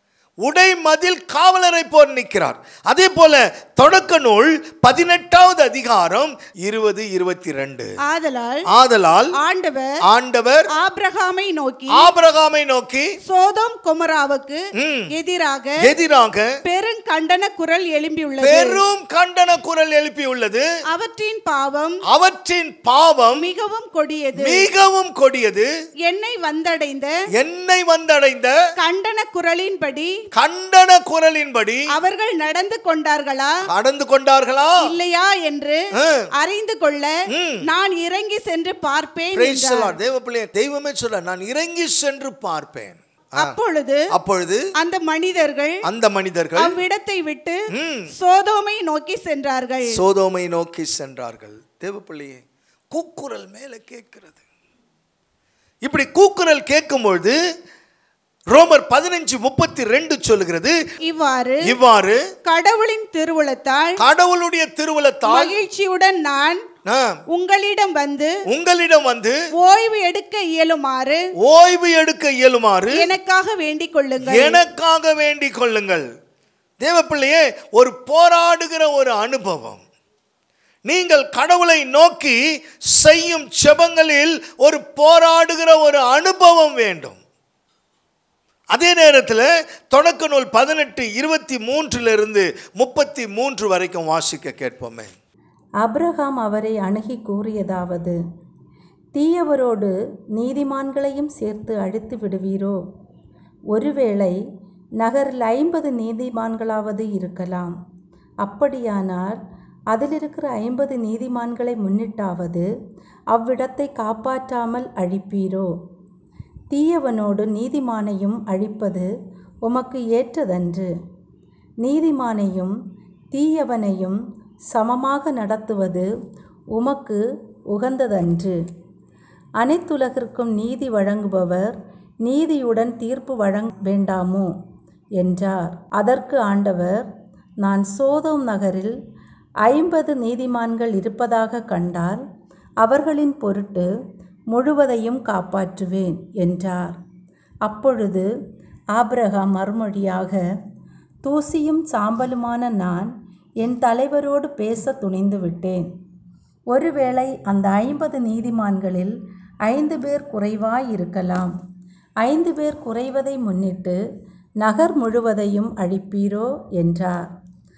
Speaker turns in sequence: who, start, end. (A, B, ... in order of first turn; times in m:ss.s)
0:00.4-0:07.9 A
0:08.0-0:08.7 B
0:08.7-0:09.4 A
0:09.4-0:10.0 B
0:10.0-0:10.7 A
0:10.7-0:12.1 B
0:11.9-0:13.2 A
0:13.2-0:15.8 B
0:14.8-0:15.1 A
0:15.8-0:16.6 A
0:16.6-0:18.8 B
0:18.4-0:20.7 A
0:20.9-0:22.0 B
0:22.1-0:23.4 A
0:23.4-0:24.7 B
0:24.4-0:25.7 A
0:26.0-0:27.2 B
0:27.3-0:28.6 A
0:28.8-0:30.2 B
0:30.3-0:31.9 A
0:31.9-0:33.6 B
0:33.7-0:34.9 A
0:34.8-0:35.8 B
0:36.0-0:36.3 A
0:36.4-0:40.0 B
0:37.3-0:37.6 A
0:39.4-0:43.6 A
0:43.4-0:44.1 B
0:44.1-0:44.7 A
0:44.8-0:45.8 B
0:45.8-0:46.8 A
0:46.6-0:50.0 B
0:47.7-0:48.1 A
0:49.9-0:54.4 A
0:55.8-0:57.4 A
0:58.5-1:00.8 A
1:01.0-1:01.8 B
1:01.6-1:02.2 A
1:02.4-1:04.0 B
1:04.0-1:05.6 A
1:05.3-1:06.6 B
1:06.9-1:07.2 A
1:07.3-1:08.4 B
1:08.5-1:09.4 A
1:09.6-1:11.3 B
1:11.4-1:13.1 A
1:12.9-1:14.6 B
1:14.2-1:16.1 A
1:16.8-1:19.8 A
1:20.9-1:27.2 A
1:28.7-1:35.1 A
1:35.8-1:38.2 C
1:39.2-1:42.8 C
1:43.7-1:44.4 C
1:45.0-1:47.8 C
1:48.4-1:49.4 C
1:49.9-1:52.7 C
1:53.3-1:55.7 C
1:56.7-1:59.1 C
1:59.6-2:00.9 C
2:01.8-2:02.8 C
2:03.3-2:06.1 C
2:06.7-2:08.6 C
2:09.6-2:14.6 C
2:15.2-2:17.1 C
2:17.6-2:19.0 C
2:19.6-2:22.2 C
2:22.8-2:23.9 C
2:24.5-2:27.0 C
2:27.6-2:28.3 C
2:29.0-2:30.4 C
2:31.2-2:35.9 C
2:36.7-2:41.5 C
2:42.2-2:44.0 C
2:44.6-2:47.3 C